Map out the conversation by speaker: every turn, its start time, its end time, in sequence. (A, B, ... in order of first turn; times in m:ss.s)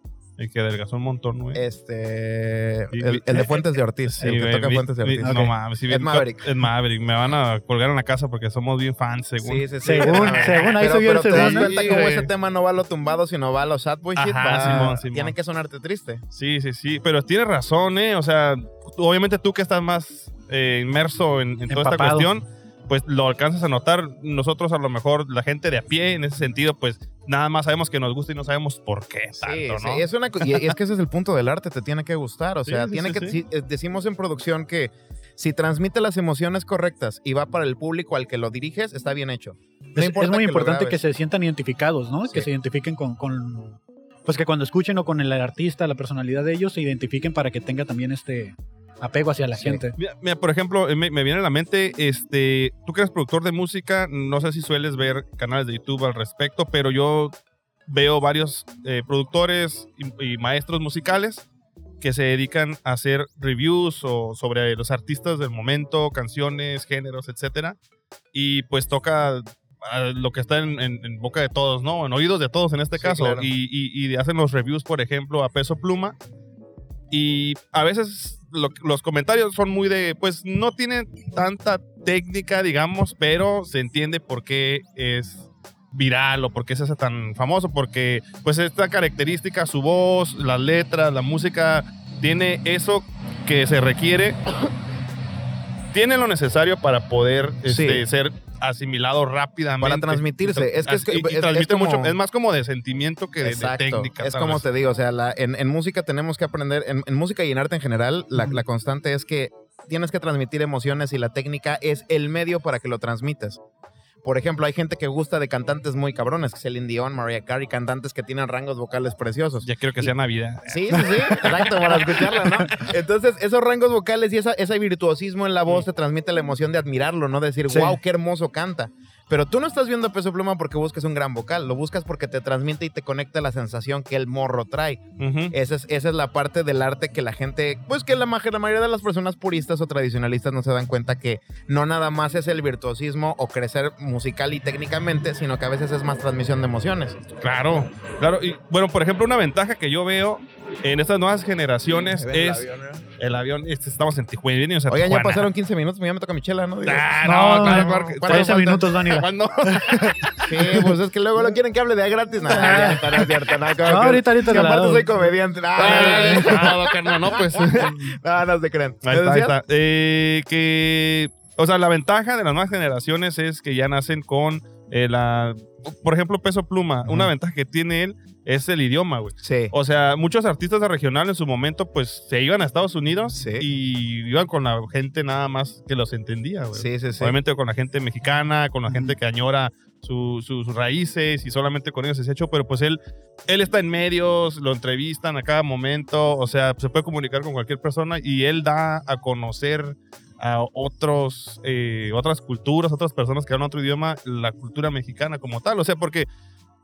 0:00.4-0:01.6 A
0:01.6-0:06.5 B
0:02.9-0:10.7 A
0:05.2-0:05.5 C
0:09.4-0:16.2 B
0:09.8-0:11.7 C
0:11.3-0:12.3 A
0:14.2-0:15.3 A
0:16.3-0:30.1 A
0:21.7-0:22.3 C
0:29.4-0:41.0 B
0:32.6-0:33.4 A
0:40.0-0:50.0 C
0:49.5-0:49.8 B
0:50.0-0:57.3 A
0:57.9-1:01.5 A
1:02.0-1:07.8 A
1:08.3-1:16.2 A
1:13.0-1:13.5 B
1:17.1-1:34.4 A
1:35.9-1:44.6 A
1:37.7-1:38.0 B
1:39.8-1:42.2 B
1:43.4-1:53.6 B
1:54.2-2:00.1 B
1:59.6-2:01.5 A
2:00.7-2:27.2 B
2:01.0-2:01.5 C
2:02.0-2:02.8 C
2:07.7-2:08.0 C
2:15.2-2:15.5 A
2:27.4-2:32.7 A
2:32.1-2:33.0 B
2:33.2-2:35.5 A
2:34.9-2:37.1 B
2:36.8-2:40.4 A
2:37.2-2:40.9 C
2:37.6-2:38.8 B
2:40.4-2:49.6 B
2:42.5-2:43.3 C
2:43.8-2:45.2 C
2:45.8-2:48.1 A
2:45.8-2:46.5 C
2:49.0-3:26.3 A
2:57.1-2:57.3 B
2:59.4-2:59.7 B
3:03.3-3:03.7 B
3:06.7-3:07.4 B